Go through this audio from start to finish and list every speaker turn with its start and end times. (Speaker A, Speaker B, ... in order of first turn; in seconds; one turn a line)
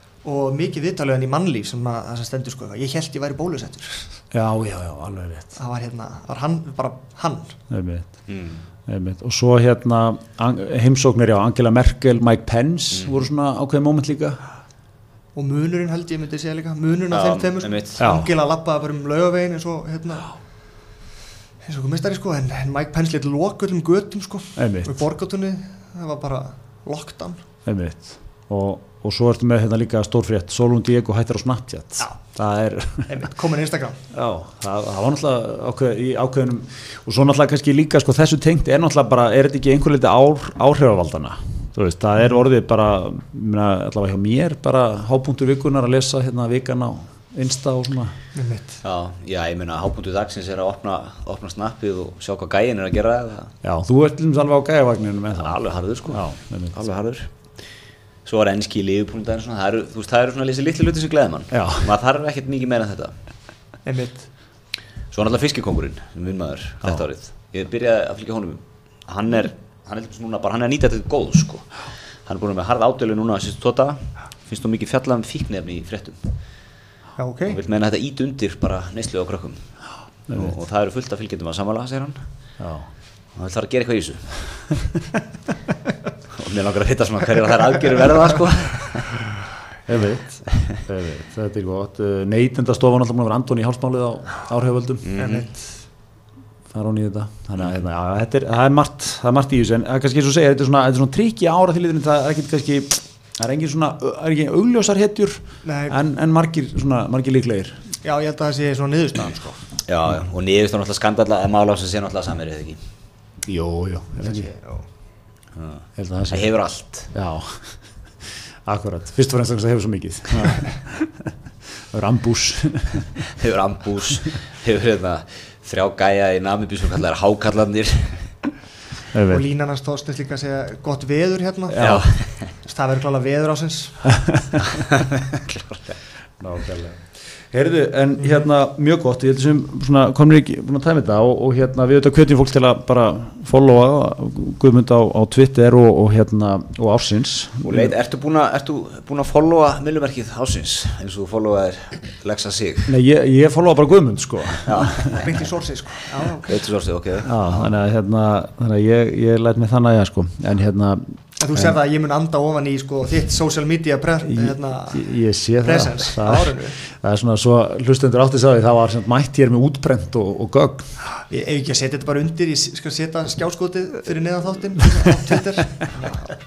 Speaker A: 0.2-4.1
Speaker B: 4.3-5.5
Speaker A: 5.5-7.6
Speaker B: 7.7-8.2
Speaker C: 8.3-8.6
Speaker B: 8.9-14.4
Speaker C: 12.9-13.3
Speaker A: 15.3-20.3
Speaker C: 17.1-18.0
Speaker B: 18.0-18.3
Speaker A: 21.6-27.4
Speaker B: 24.6-25.0
Speaker B: 27.6-33.2
Speaker A: 33.1-34.0
Speaker B: 34.1-48.1
Speaker A: 48.4-48.8
Speaker C: 48.8-53.5
Speaker B: 53.6-56.8
Speaker C: 55.4-57.3
Speaker C: 58.3-63.1
Speaker B: 61.5-61.9
Speaker A: 63.9-64.3
Speaker C: 65.1-71.7
Speaker C: 72.3-76.3
Speaker A: 77.2-77.6
Speaker C: 77.5-79.6
Speaker C: 80.3-82.2
Speaker B: 82.6-82.9
Speaker C: 83.3-84.3
Speaker C: 86.3-89.2
Speaker B: 89.9-95.0
Speaker C: 95.0-95.5
Speaker A: 95.2-95.6
Speaker B: 96.7-107.8
Speaker A: 105.6-106.0
Speaker A: 108.0-109.6
Speaker C: 109.9-112.8
Speaker B: 113.4-114.5
Speaker A: 114.2-114.8
Speaker C: 115.5-117.1
Speaker B: 116.0-116.5
Speaker B: 117.1-117.7
Speaker B: 118.6-121.3
Speaker B: 121.9-123.0
Speaker C: 123.2-128.2
Speaker B: 129.1-129.4
Speaker A: 129.3-131.8
Speaker B: 131.7-132.1
Speaker C: 131.8-132.5
Speaker A: 132.7-134.1
Speaker B: 134.1-134.8
Speaker C: 134.8-135.9
Speaker B: 136.4-137.0
Speaker B: 137.5-147.9
Speaker C: 147.7-152.9
Speaker B: 152.8-155.2
Speaker C: 154.6-155.2
Speaker A: 155.1-156.5
Speaker C: 156.4-157.7
Speaker B: 157.2-161.7
Speaker A: 161.4-165.1
Speaker B: 164.2-170.9
Speaker A: 165.6-166.8
Speaker A: 171.3-176.3